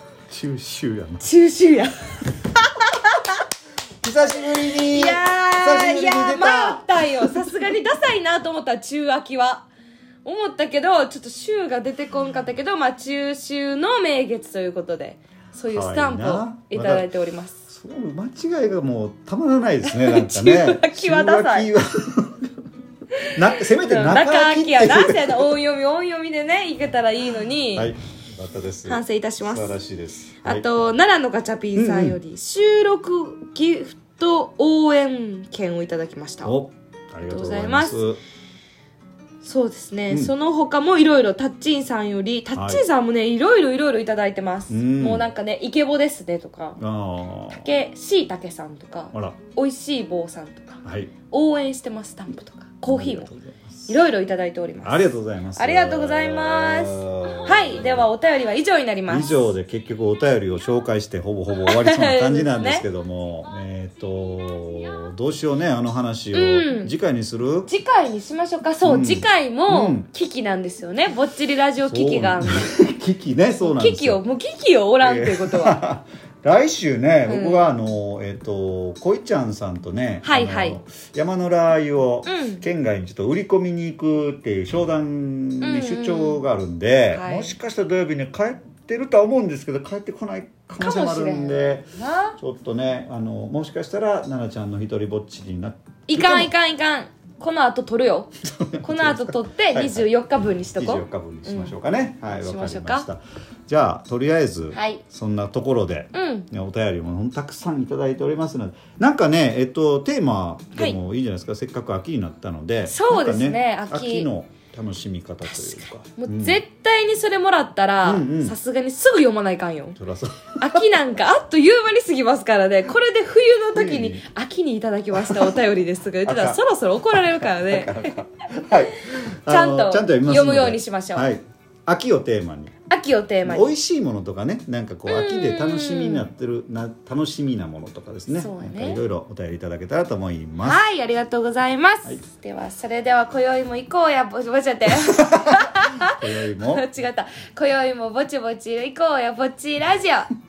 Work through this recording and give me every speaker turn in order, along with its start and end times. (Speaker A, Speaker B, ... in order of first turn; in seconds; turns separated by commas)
Speaker A: 0.3-1.3, Speaker B: 1.2-1.9, Speaker A: 4.0-7.4, Speaker B: 4.7-9.7, Speaker B: 10.2-17.7, Speaker A: 15.7-17.1, Speaker A: 17.7-22.5, Speaker B: 19.8-21.7, Speaker A: 23.3-25.5, Speaker B: 23.6-27.9, Speaker A: 27.7-30.7, Speaker B: 28.8-29.8, Speaker B: 30.4-36.5, Speaker A: 31.8-32.2, Speaker A: 36.4-38.2, Speaker B: 37.2-38.0, Speaker B: 39.4-46.8, Speaker A: 42.5-42.8, Speaker A: 44.7-45.3, Speaker A: 46.8-47.7, Speaker B: 47.5-53.3, Speaker A: 49.1-49.4, Speaker A: 50.8-51.1, Speaker A: 52.8-53.9, Speaker B: 53.9-59.5, Speaker A: 54.8-58.1, Speaker A: 59.1-67.7, Speaker B: 61.6-62.8, Speaker B: 66.3-66.9, Speaker B: 67.7-72.7, Speaker A: 68.8-70.1, Speaker A: 71.8-74.2, Speaker B: 73.6-75.8, Speaker A: 75.0-96.5, Speaker B: 77.2-77.7, Speaker B: 80.2-80.8, Speaker B: 82.2-82.6, Speaker B: 85.6-86.4, Speaker B: 87.1-87.5, Speaker B: 90.8-92.4, Speaker B: 96.1-103.0, Speaker A: 98.5-100.1, Speaker A: 100.7-116.6, Speaker B: 104.7-105.0, Speaker B: 106.1-106.5, Speaker B: 112.8-114.3, Speaker B: 115.4-120.0, Speaker A: 118.0-118.5, Speaker A: 120.0-120.8, Speaker B: 120.6-128.1, Speaker A: 123.7-124.2, Speaker A: 125.2-125.5, Speaker A: 126.2-126.6, Speaker A: 127.1-132.7, Speaker B: 129.4-131.2, Speaker B: 132.9-133.7, Speaker A: 133.4-140.8, Speaker B: 135.1-136.3, Speaker B: 138.3-139.0, Speaker B: 140.6-150.3, Speaker A: 145.1-146.9